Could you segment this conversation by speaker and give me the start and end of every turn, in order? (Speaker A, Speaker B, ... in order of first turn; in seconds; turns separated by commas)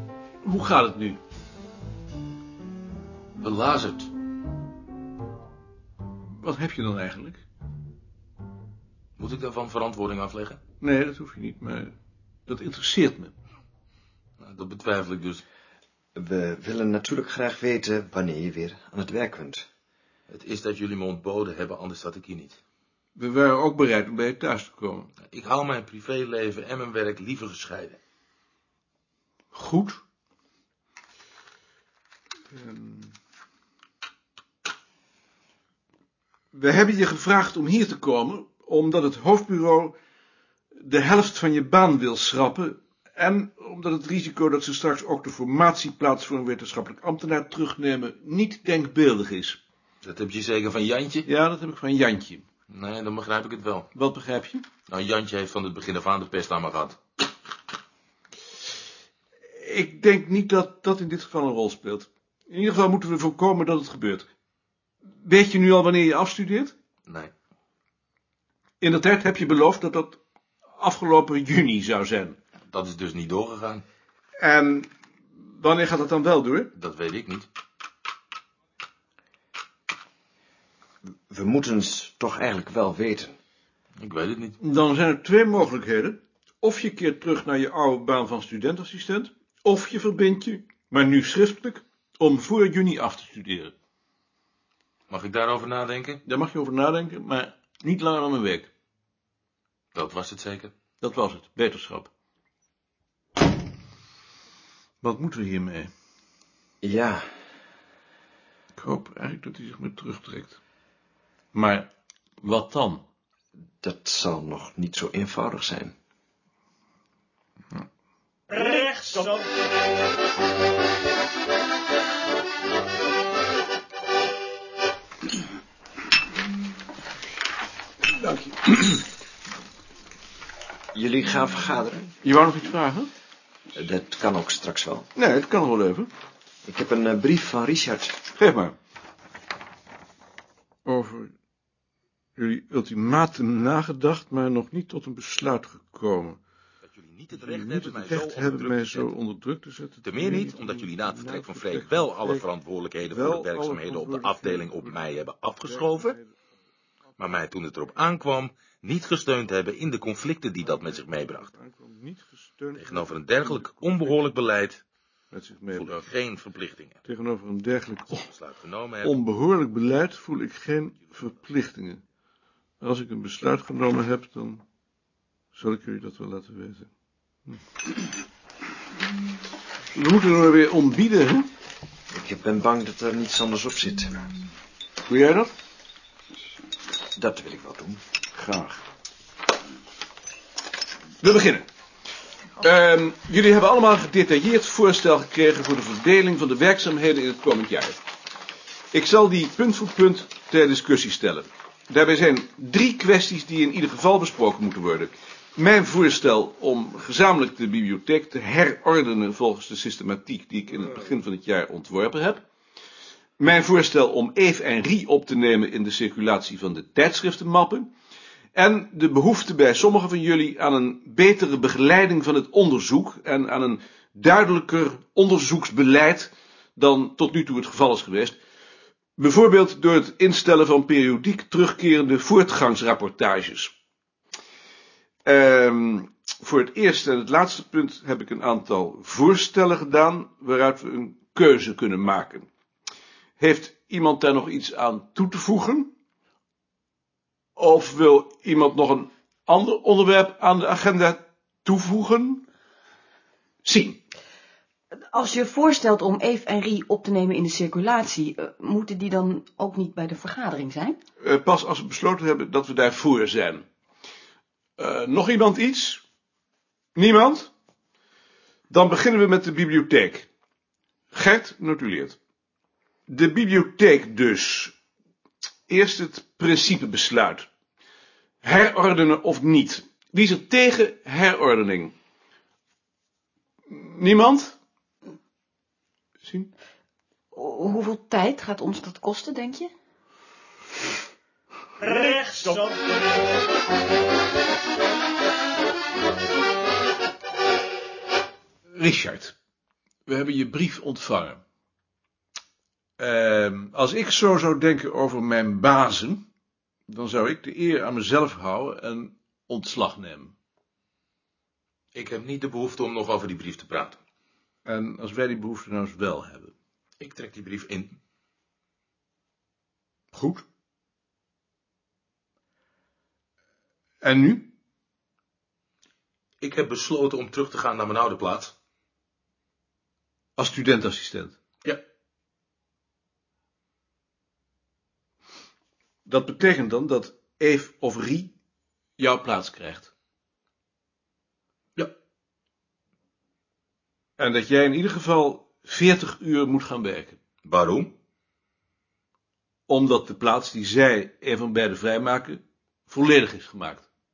Speaker A: 0.4-1.2, Speaker B: 3.4-4.1, Speaker A: 6.4-7.4, Speaker B: 9.2-10.6, Speaker A: 10.8-11.9, Speaker A: 12.5-13.3, Speaker B: 14.4-15.4, Speaker C: 16.1-19.7, Speaker B: 20.3-22.6, Speaker A: 23.1-25.1, Speaker B: 25.3-28.0, Speaker A: 29.5-30.0, Speaker A: 32.5-33.1, Speaker A: 36.5-39.9, Speaker A: 40.8-49.6, Speaker B: 50.0-51.3, Speaker A: 51.2-52.5, Speaker B: 52.7-53.9, Speaker A: 53.9-54.6, Speaker B: 54.9-57.0, Speaker A: 59.5-64.3, Speaker A: 65.2-66.7, Speaker B: 67.0-67.3, Speaker A: 68.8-70.2, Speaker A: 70.8-72.4, Speaker B: 72.7-73.8, Speaker A: 74.4-74.9, Speaker A: 75.4-76.7, Speaker B: 76.7-77.5, Speaker C: 81.3-83.3, Speaker B: 84.0-84.6, Speaker A: 84.6-93.7, Speaker B: 95.1-96.2, Speaker A: 96.2-98.7, Speaker B: 99.9-100.7, Speaker A: 101.0-102.1, Speaker A: 105.0-105.9, Speaker C: 106.8-107.3, Speaker A: 108.8-110.6, Speaker A: 111.5-111.9, Speaker A: 112.4-113.0, Speaker C: 113.8-115.9, Speaker A: 128.1-129.0, Speaker C: 130.9-132.1, Speaker A: 132.2-133.1, Speaker C: 133.7-135.1, Speaker A: 135.2-136.1, Speaker C: 136.6-138.2, Speaker A: 138.3-138.7, Speaker A: 140.8-141.3, Speaker A: 142.3-146.4, Speaker B: 146.8-149.1, Speaker A: 147.3-152.4, Speaker B: 150.0-156.2, Speaker A: 153.1-154.9, Speaker A: 155.7-156.3, Speaker B: 157.2-161.5, Speaker A: 160.8-164.1, Speaker B: 162.8-164.8, Speaker A: 165.3-166.0, Speaker B: 165.8-167.0, Speaker A: 167.1-168.3, Speaker B: 168.2-169.2, Speaker A: 169.0-172.0, Speaker A: 172.8-174.6, Speaker A: 175.5-176.9, Speaker A: 179.9-181.5, Speaker C: 182.1-184.2, Speaker A: 185.1-185.5, Speaker C: 187.2-188.0, Speaker A: 188.3-188.8, Speaker A: 191.2-191.7, Speaker A: 192.6-198.0, Speaker A: 198.9-212.4, Speaker A: 213.4-217.9, Speaker A: 218.5-228.4, Speaker A: 229.2-233.7, Speaker A: 235.2-242.5, Speaker A: 243.4-245.9, Speaker A: 247.6-252.4, Speaker A: 253.6-254.0, Speaker D: 255.1-260.9, Speaker A: 261.2-263.6, Speaker A: 264.8-266.0, Speaker A: 266.9-267.5, Speaker A: 268.7-270.3, Speaker A: 271.1-272.2, Speaker A: 273.1-274.7, Speaker A: 275.7-277.5, Speaker A: 278.4-281.9, Speaker A: 283.7-284.6, Speaker A: 286.2-286.5, Speaker D: 287.4-289.6, Speaker A: 298.7-299.3, Speaker A: 300.1-301.4, Speaker A: 303.0-306.2, Speaker A: 306.9-310.3, Speaker B: 311.9-314.0, Speaker A: 314.6-316.5, Speaker B: 317.0-318.0, Speaker A: 320.1-320.4, Speaker A: 324.0-324.5, Speaker B: 326.4-328.5, Speaker A: 330.4-331.4, Speaker A: 336.1-338.3, Speaker A: 339.0-339.9, Speaker A: 344.2-347.2, Speaker B: 347.4-347.9, Speaker A: 349.7-353.9